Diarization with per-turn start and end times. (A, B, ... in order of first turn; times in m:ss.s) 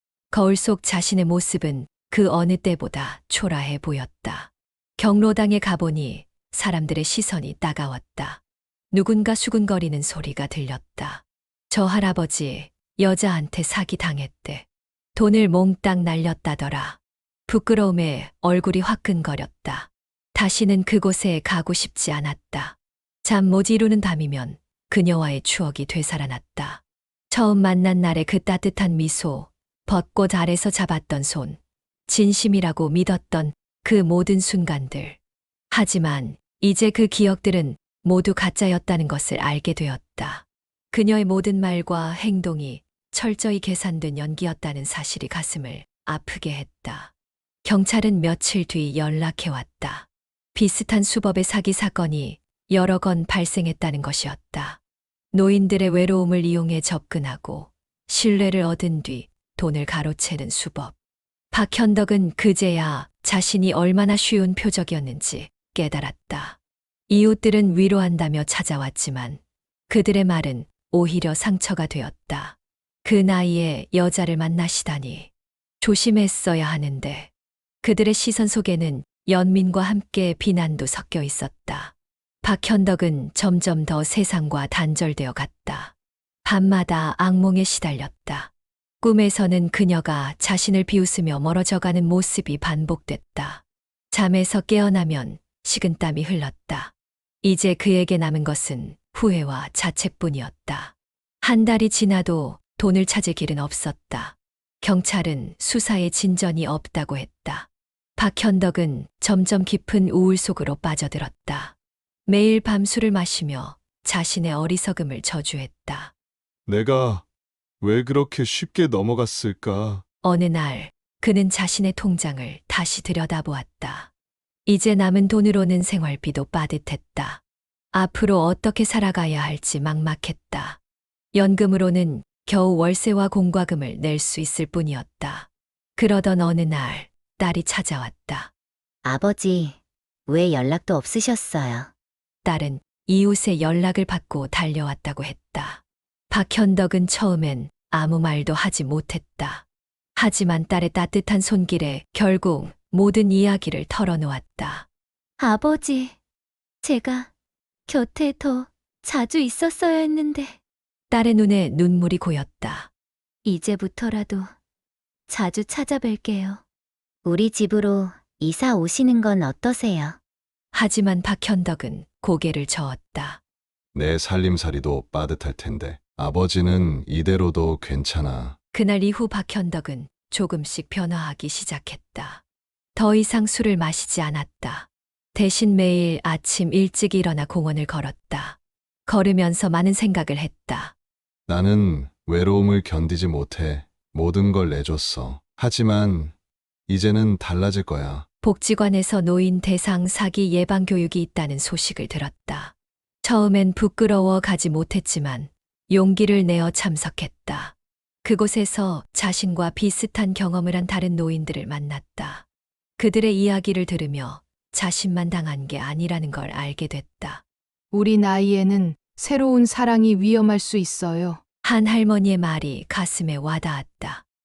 0:00.3-0:08.4 A
0:08.9-0:35.2 A
0:35.7-0:47.1 A
0:47.6-0:54.8 A
0:55.3-1:00.9 A
1:01.5-1:06.6 A
1:07.1-1:15.3 A
1:15.8-1:17.3 A
1:17.8-1:25.9 A
1:26.4-1:28.5 A
1:29.0-1:51.8 A
1:52.3-1:56.1 A
1:56.7-1:57.2 B
1:57.8-2:00.0 B
2:00.2-2:04.1 A
2:04.7-2:07.4 A
2:07.9-2:10.8 A
2:11.3-2:18.5 A
2:19.0-2:21.9 C
2:22.4-2:29.6 A
2:30.2-2:34.9 A
2:35.4-2:36.2 C
2:36.8-2:37.3 C
2:37.9-2:40.6 C
2:41.1-2:42.9 A
2:43.4-2:44.5 C
2:45.3-2:46.6 C
2:47.2-2:50.2 C
2:50.7-2:53.4 A
2:53.9-2:58.6 B
2:58.7-3:02.4 A
3:03.0-3:10.9 A
3:11.5-3:16.3 B
3:16.9-3:18.3 B
3:18.4-3:32.4 A
3:33.0-3:37.4 A
3:37.9-3:41.4 D
3:41.6-3:44.2 A